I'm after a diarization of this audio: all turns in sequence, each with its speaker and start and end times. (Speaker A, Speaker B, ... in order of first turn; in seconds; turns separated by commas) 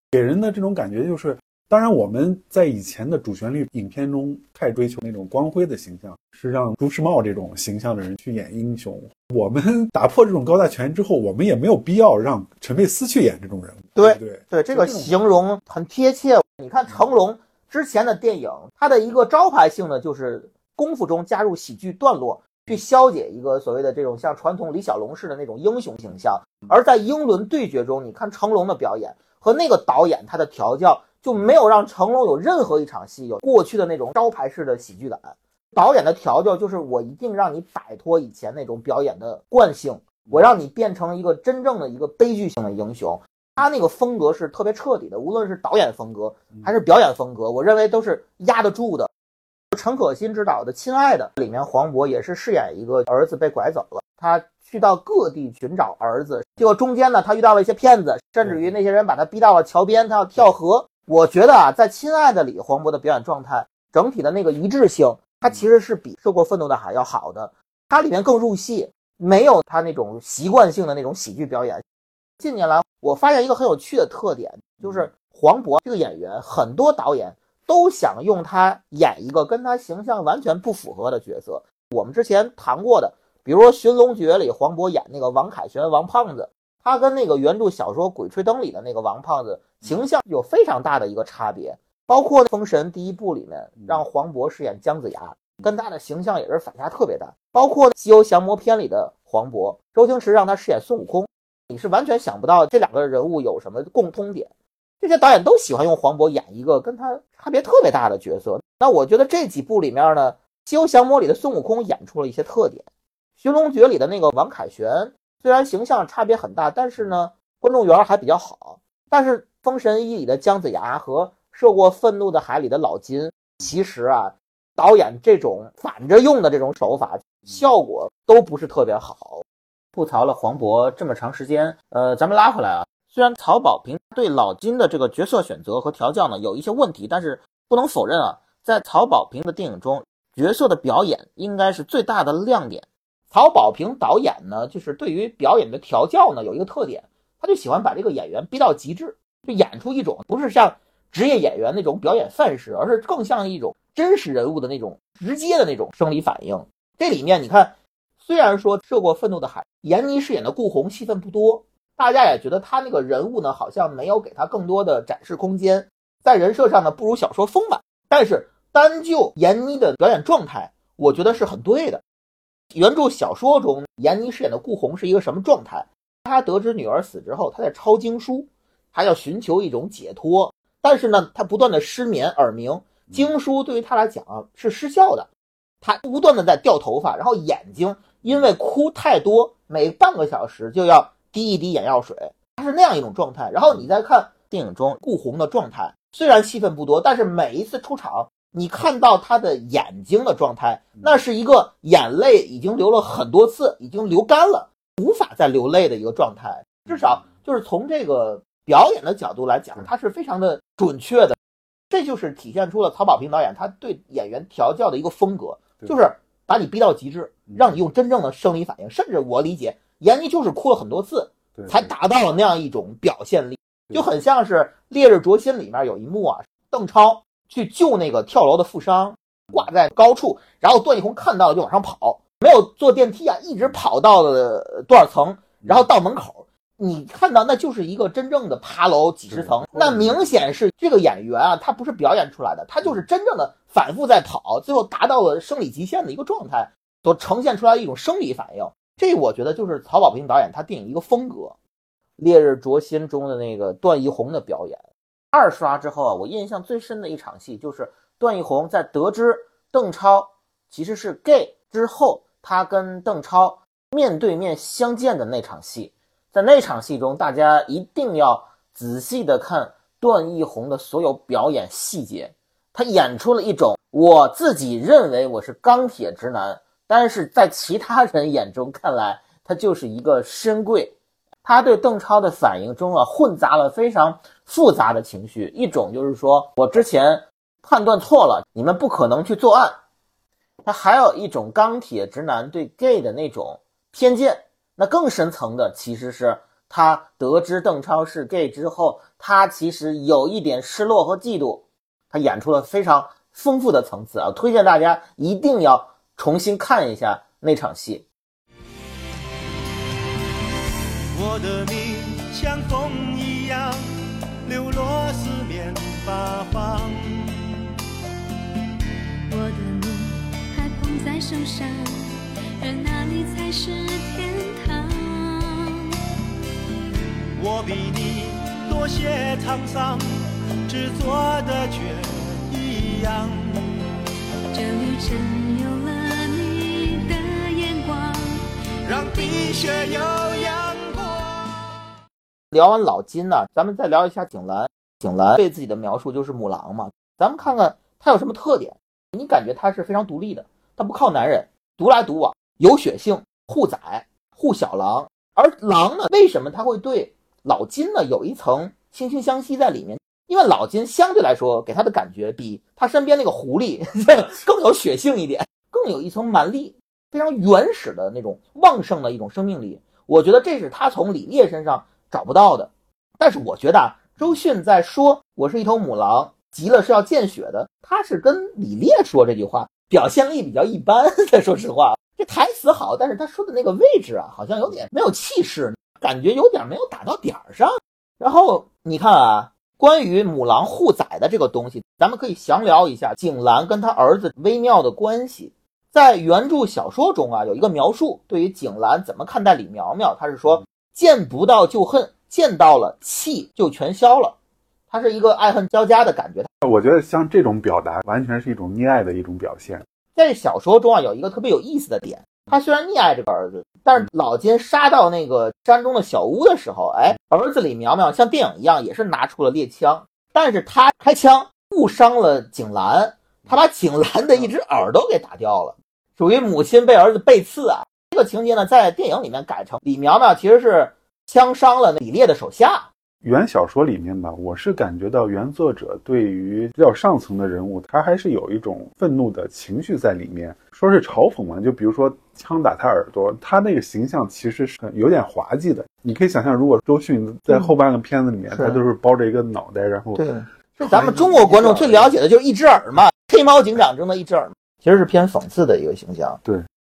Speaker A: 0.1-15.1, Speaker B: 14.0-49.1, Speaker B: 49.7-71.8, Speaker B: 72.4-112.8, Speaker B: 113.4-129.4, Speaker C: 130.0-142.9, Speaker B: 143.3-172.0, Speaker B: 172.7-185.3, Speaker B: 185.8-211.4, Speaker C: 194.5-195.0, Speaker B: 211.9-251.6, Speaker A: 221.6-221.9, Speaker A: 239.7-240.0, Speaker B: 252.2-254.8, Speaker C: 255.3-289.8, Speaker C: 290.6-308.1, Speaker D: 311.1-313.8, Speaker D: 314.4-317.2, Speaker E: 319.3-325.9, Speaker D: 327.4-330.0, Speaker D: 330.7-333.4, Speaker E: 334.5-338.4, Speaker D: 338.9-341.5, Speaker B: 342.5-404.4, Speaker B: 404.9-406.5, Speaker A: 406.6-409.9, Speaker B: 410.1-432.9, Speaker A: 433.2-452.1, Speaker B: 448.5-448.8, Speaker B: 450.2-456.4